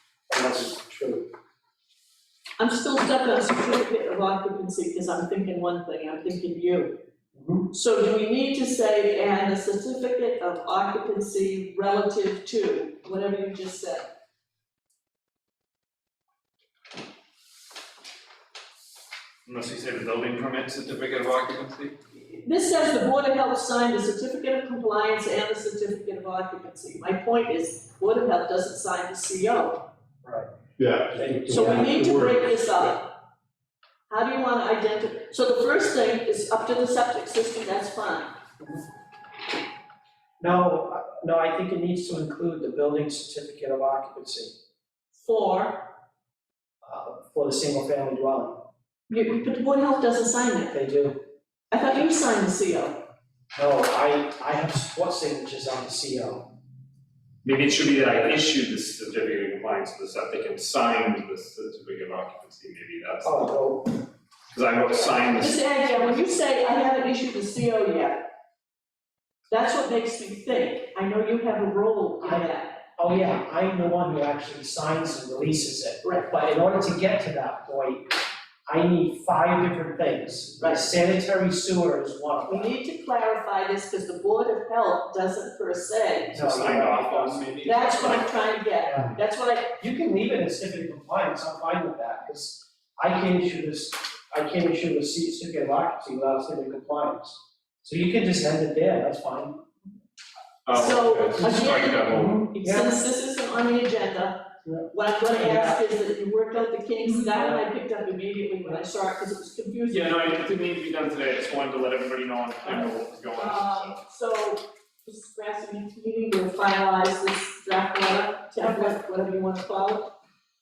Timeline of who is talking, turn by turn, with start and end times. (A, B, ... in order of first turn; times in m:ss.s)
0:00.3-0:01.2 A
0:02.6-0:06.9 B
0:07.3-0:07.7 A
0:07.7-0:14.1 B
0:19.4-0:21.9 C
0:22.1-0:29.8 B
0:30.2-0:30.5 A
0:30.8-0:33.0 D
0:31.2-0:31.8 A
0:31.5-0:33.0 B
0:34.1-0:38.3 B
0:40.4-0:44.5 A
0:45.1-0:45.9 B
0:46.8-0:48.6 A
0:49.1-0:50.8 B
0:50.7-0:51.2 A
0:51.7-0:53.0 B
0:53.5-0:56.4 A
0:57.4-1:03.5 C
1:03.2-1:04.0 A
1:04.5-1:05.6 C
1:05.3-1:08.2 B
1:09.5-1:12.8 B
1:12.2-1:18.2 A
1:18.7-1:22.7 A
1:22.5-1:26.4 B
1:26.3-1:28.3 C
1:26.3-1:27.4 A
1:27.6-1:29.8 B
1:28.9-1:29.2 A
1:29.8-1:39.5 A
1:40.6-1:42.5 C
1:40.7-1:50.3 B
1:42.1-1:42.9 A
1:44.6-1:45.8 A
1:47.3-1:47.6 A
1:49.9-1:54.0 C
1:52.6-2:00.1 B